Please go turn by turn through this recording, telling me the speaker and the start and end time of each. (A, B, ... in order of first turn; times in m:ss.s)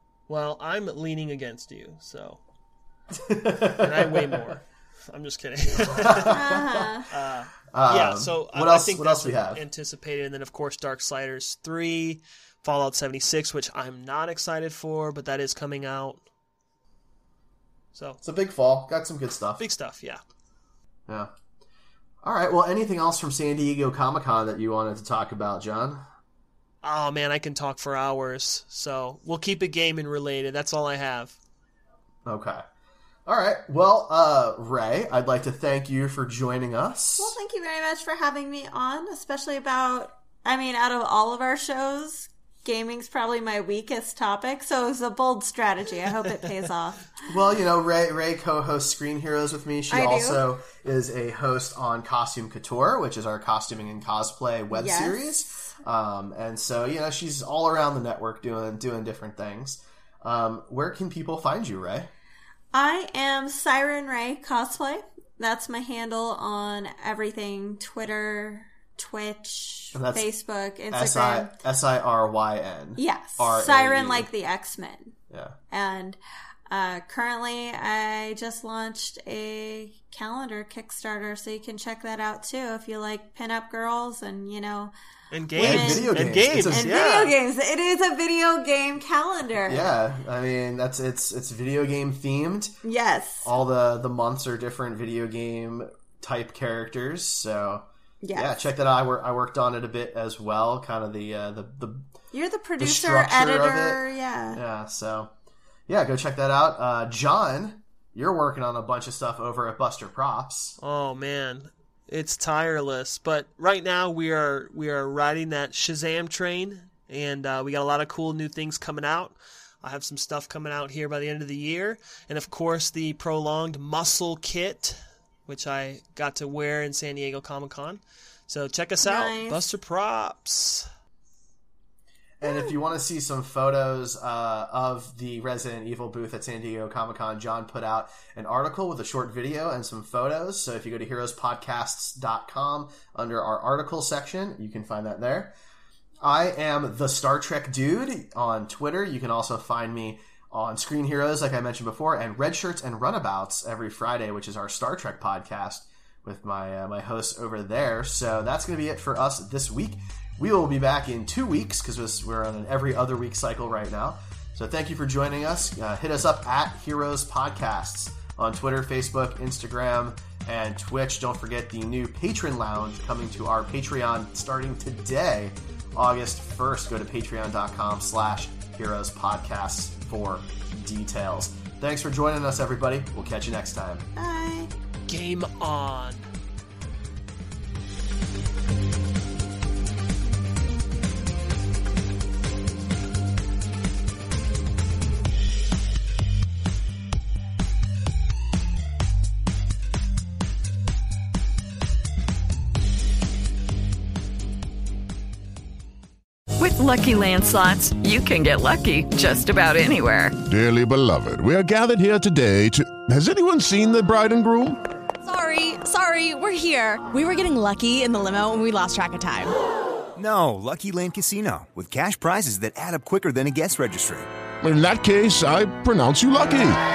0:00.3-0:02.4 A
0:03.1-0:04.5 B
0:03.8-0:06.4 A
0:06.0-0:07.0 B
0:06.2-0:07.1 C
0:07.1-0:16.2 A
0:07.7-0:09.6 B
0:17.9-0:18.2 A
0:18.2-0:19.6 B
0:19.6-0:20.2 A
0:22.2-0:26.0 B
0:26.8-0:31.4 A
0:32.2-0:32.6 B
0:33.3-0:37.4 B
0:37.2-0:47.1 C
0:47.3-1:02.1 B
0:49.9-0:50.4 C
0:54.7-0:55.7 C
1:02.7-1:11.6 C
1:09.9-1:10.3 B
1:10.9-1:14.3 B
1:13.0-1:15.1 C
1:15.3-1:15.6 B
1:15.7-1:24.9 C
1:25.3-1:27.3 A
1:25.6-1:26.1 C
1:25.6-1:27.1 B
1:26.7-1:29.9 C
1:29.6-1:32.7 B
1:32.8-1:33.5 C
1:33.4-1:42.1 B
1:38.2-1:38.6 C
1:42.3-1:44.6 C
1:42.8-1:45.3 B
1:45.9-1:50.8 B
1:50.8-2:10.9 A
2:09.0-2:09.6 C
2:12.4-2:25.5 B
2:26.2-3:04.1 B
3:04.2-3:04.7 C
3:05.1-3:06.3 A
3:26.6-3:30.4 D
3:30.5-3:34.8 E
3:35.2-3:39.5 F
3:40.2-3:44.3 G
3:44.6-3:46.8 E